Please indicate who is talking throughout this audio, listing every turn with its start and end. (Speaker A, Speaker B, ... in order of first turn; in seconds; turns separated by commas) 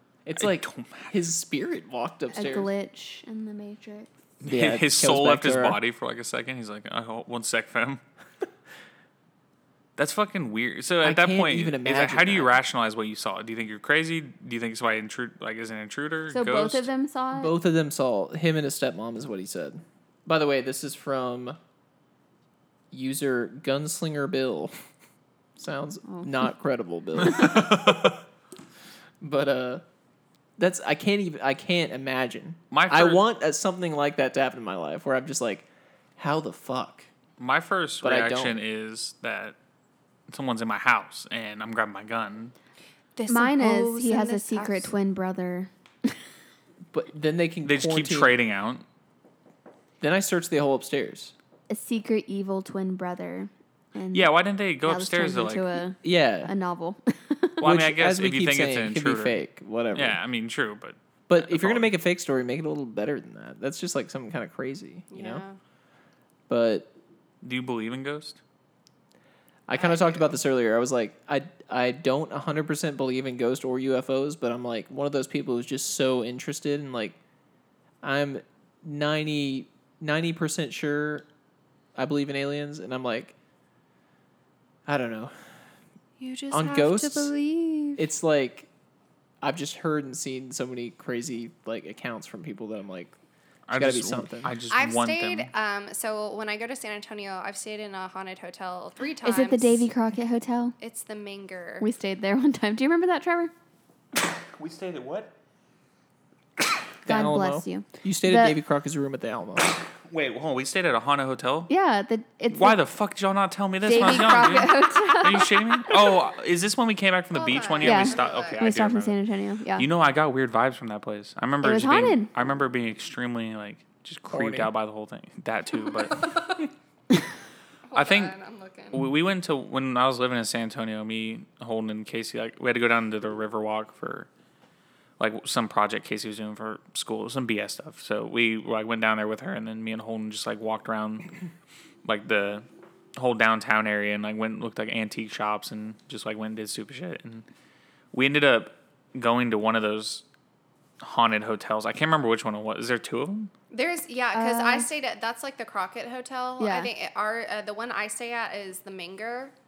Speaker A: 0.2-2.7, Speaker B: 0.4-1.1, Speaker C: 2.3-4.1, Speaker B: 4.4-8.0, Speaker A: 4.4-5.8, Speaker B: 9.9-16.9, Speaker A: 11.0-12.6, Speaker C: 16.3-17.5, Speaker A: 17.3-21.6, Speaker A: 22.9-24.7, Speaker A: 25.6-28.0, Speaker B: 27.2-28.2, Speaker A: 29.2-29.8, Speaker A: 30.6-35.6, Speaker B: 32.7-33.2, Speaker A: 36.2-37.1, Speaker B: 37.4-39.5, Speaker A: 38.0-38.6, Speaker B: 40.3-42.5, Speaker D: 43.1-44.9, Speaker C: 43.3-46.1, Speaker A: 46.9-48.4, Speaker B: 47.6-48.8, Speaker A: 50.0-51.3, Speaker C: 51.7-57.6, Speaker B: 54.1-55.8, Speaker A: 56.0-56.5, Speaker B: 57.6-59.4, Speaker A: 57.6-60.2, Speaker B: 59.9-61.9, Speaker A: 61.3-65.4, Speaker D: 65.1-65.6, Speaker A: 66.5-66.9, Speaker B: 67.4-68.4, Speaker A: 69.7-77.2, Speaker D: 69.7-70.3, Speaker A: 78.0-81.2, Speaker A: 82.0-83.3, Speaker A: 84.8-85.3, Speaker D: 86.2-88.0, Speaker A: 86.5-87.3, Speaker A: 88.0-88.7, Speaker A: 89.4-93.1, Speaker B: 93.7-95.5, Speaker A: 93.7-94.6, Speaker D: 94.7-99.8, Speaker C: 99.2-100.7, Speaker D: 100.8-101.8, Speaker C: 101.8-103.5, Speaker B: 104.4-105.3, Speaker A: 107.0-109.8, Speaker C: 107.0-108.6, Speaker B: 110.1-111.7, Speaker C: 111.7-112.8, Speaker B: 112.5-119.2, Speaker C: 113.8-115.8, Speaker D: 117.3-118.7, Speaker C: 117.8-119.9, Speaker B: 119.8-126.6, Speaker C: 121.6-122.3, Speaker A: 124.3-124.7, Speaker D: 126.1-126.5, Speaker D: 127.9-129.1, Speaker B: 127.9-128.3, Speaker B: 128.9-134.3, Speaker B: 135.2-141.4, Speaker B: 142.0-147.4, Speaker B: 148.1-150.2, Speaker B: 151.0-153.5, Speaker D: 153.7-159.5, Speaker C: 154.3-154.9, Speaker C: 156.6-156.9